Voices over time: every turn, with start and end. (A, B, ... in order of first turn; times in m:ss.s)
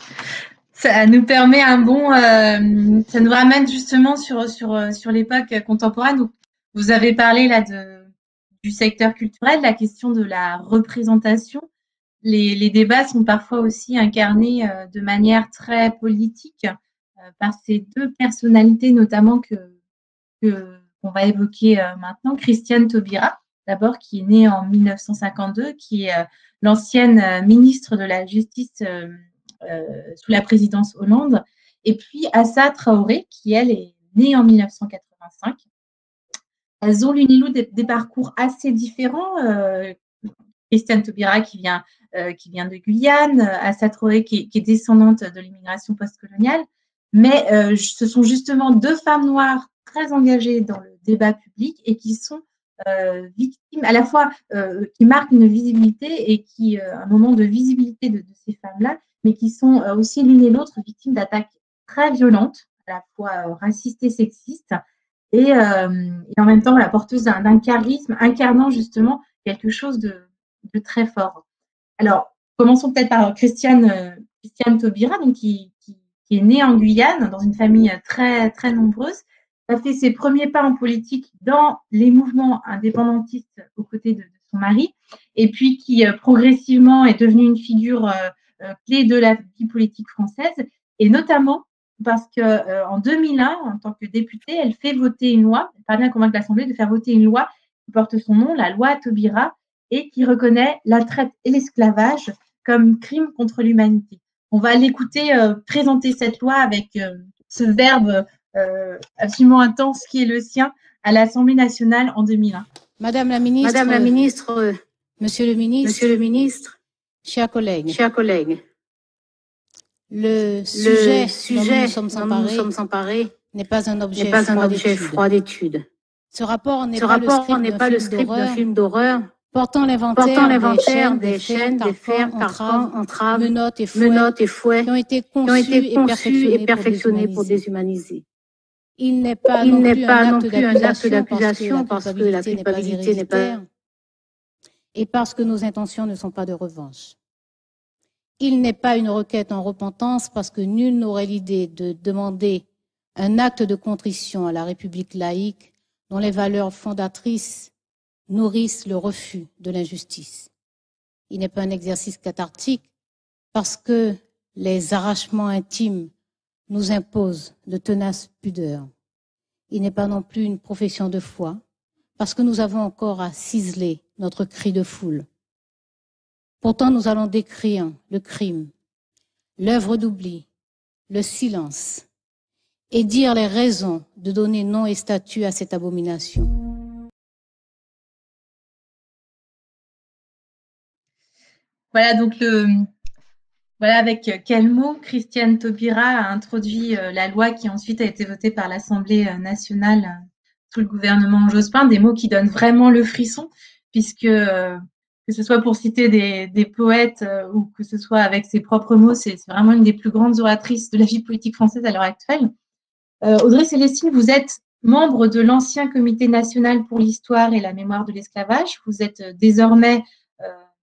0:00.7-0:08.1 A
0:08.6-0:11.7 A
0:12.2-0:16.7 A
0:17.4-0:19.7 A
0:20.4-0:35.6 A
0:36.8-0:40.0 A
0:40.7-1:04.8 A
1:05.3-1:11.4 A
1:12.0-1:52.6 A
1:53.0-1:54.3 B
1:53.6-1:54.7 C
1:55.2-1:56.2 B
1:55.8-1:56.8 C
1:57.2-1:58.0 B
1:57.9-1:58.6 C
2:00.1-2:02.7 B
2:00.7-2:03.3 C
2:03.4-2:05.2 B
2:04.1-2:05.8 C
2:06.3-2:08.6 B
2:06.9-2:09.3 C
2:09.5-2:14.3 B
2:10.1-2:14.9 C
2:14.8-2:17.6 B
2:15.4-2:18.2 C
2:19.0-2:23.6 B
2:19.5-2:23.6 C
2:24.9-2:27.2 B
2:28.4-2:37.7 B
2:38.3-2:40.5 B
2:41.3-2:42.9 B
2:43.5-2:46.1 B
2:46.7-2:48.9 B
2:49.7-2:51.6 B
2:52.2-2:55.2 B
2:56.6-2:58.7 B
2:59.6-3:00.4 B
3:01.1-3:02.0 B
3:02.9-3:06.5 B
3:11.9-3:12.9 A
3:13.8-3:32.5 A
3:33.2-3:40.6 A